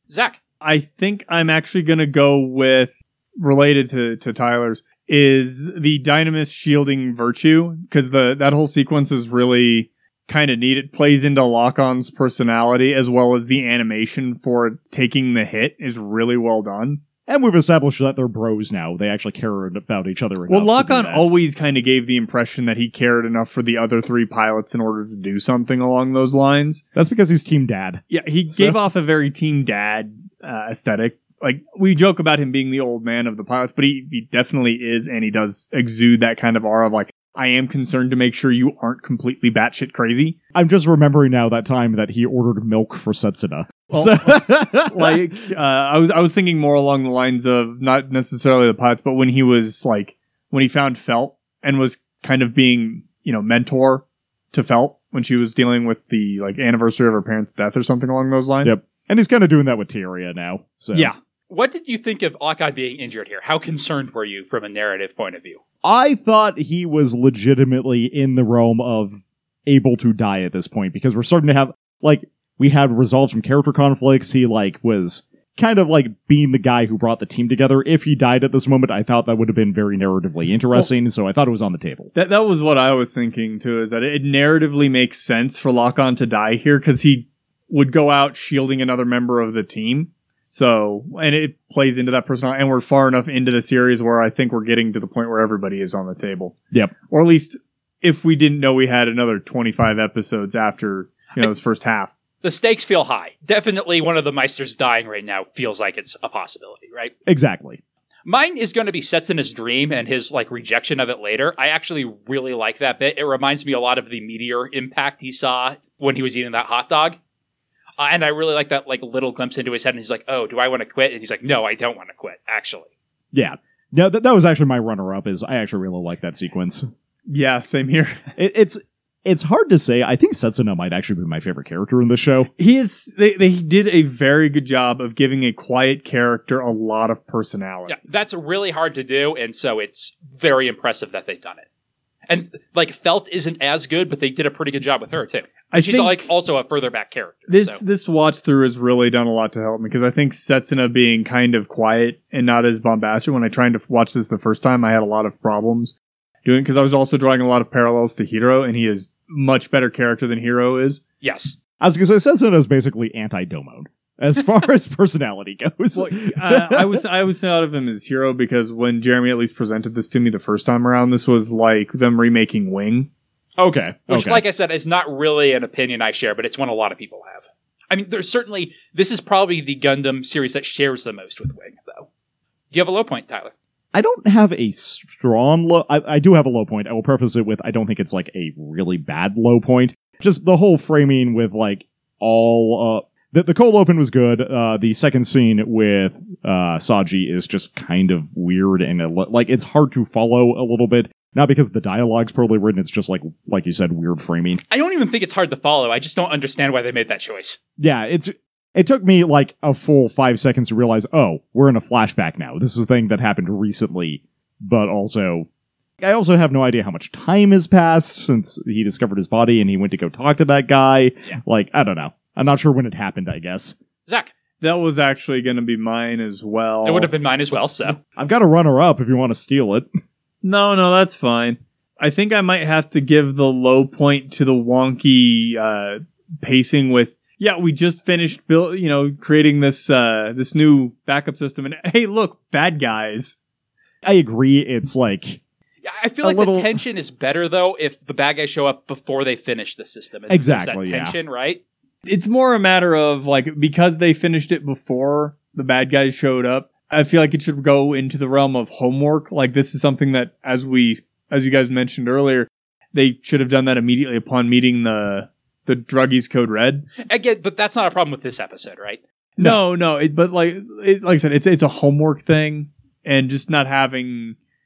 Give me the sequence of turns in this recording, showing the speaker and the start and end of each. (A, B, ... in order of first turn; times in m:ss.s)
0:00.1-0:00.4 A
0:00.6-0:17.0 B
0:17.3-0:21.3 C
0:20.5-0:26.8 B
0:27.0-0:28.8 C
0:28.1-0:40.3 B
0:40.6-0:45.2 C
0:43.9-0:58.7 B
0:58.6-1:01.1 C
1:01.5-1:05.6 A
1:05.8-1:22.1 C
1:22.1-1:36.6 B
1:37.1-1:42.1 B
1:42.4-1:47.1 A
1:47.3-1:47.8 C
1:48.3-1:57.2 A
1:58.0-2:02.9 A
2:03.3-2:06.9 C
2:07.3-2:08.2 B
2:08.4-2:12.5 C
2:12.6-2:18.0 B
2:17.9-2:21.6 A
2:22.3-2:27.8 A
2:25.7-2:26.3 B
2:27.5-2:41.0 B
2:41.2-2:41.6 A
2:41.8-2:47.0 C
2:46.0-2:53.1 B
2:53.6-2:54.4 C
2:54.1-3:02.1 A
3:02.7-3:03.5 A
3:03.9-3:24.6 C
3:24.7-3:27.6 A
3:27.8-3:35.5 C
3:36.0-3:43.7 C
3:44.1-3:44.3 A
3:44.6-3:47.1 B
3:46.8-3:48.0 A
3:48.1-3:49.9 C
3:50.4-4:03.3 B
4:04.0-4:05.4 C
4:05.9-4:11.6 A
4:06.2-4:06.7 C
4:10.3-4:11.2 C
4:12.0-4:26.9 B
4:27.1-4:29.0 A
4:29.4-4:34.4 B